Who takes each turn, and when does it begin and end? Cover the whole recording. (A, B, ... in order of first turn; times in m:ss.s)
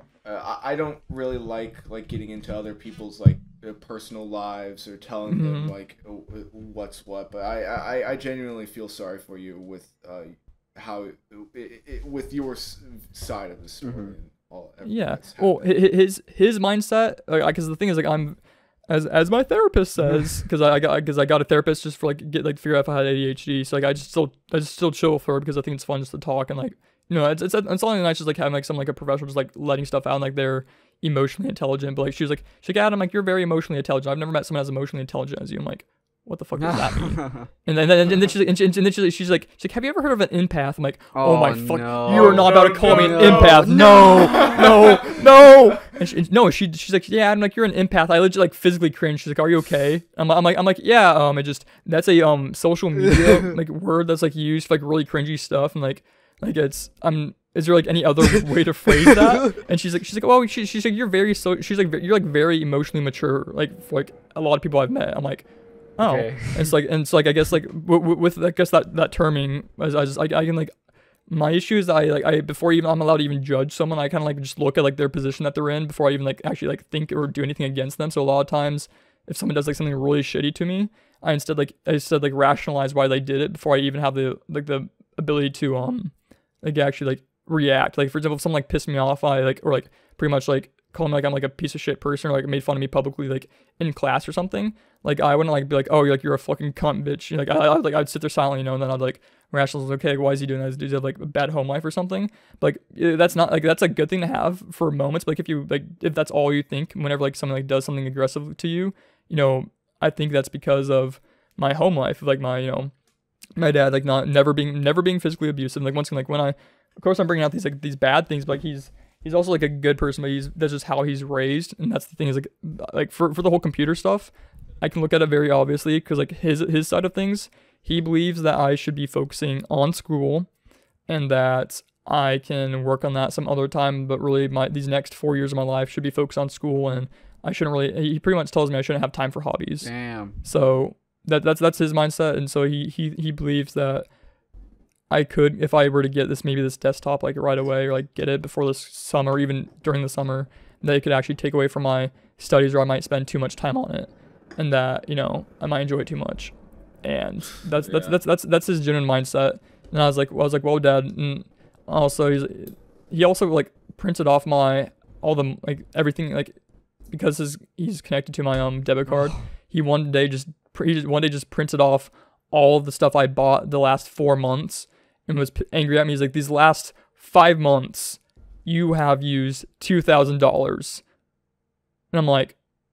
0:00.2-0:15.7 A
0:05.3-0:05.7 B
0:13.8-0:14.1 C
0:14.8-1:10.7 B
0:36.6-0:37.5 C
0:41.1-0:44.5 C
0:42.0-0:45.2 A
0:53.1-0:53.5 C
1:06.0-1:06.7 C
1:11.3-1:52.9 B
1:53.6-2:10.5 B
2:11.1-2:19.9 B
2:19.8-2:20.4 C
2:20.4-2:24.1 B
2:25.1-2:46.6 B
2:37.7-2:38.2 A
2:47.1-3:01.0 B
3:02.1-3:02.6 B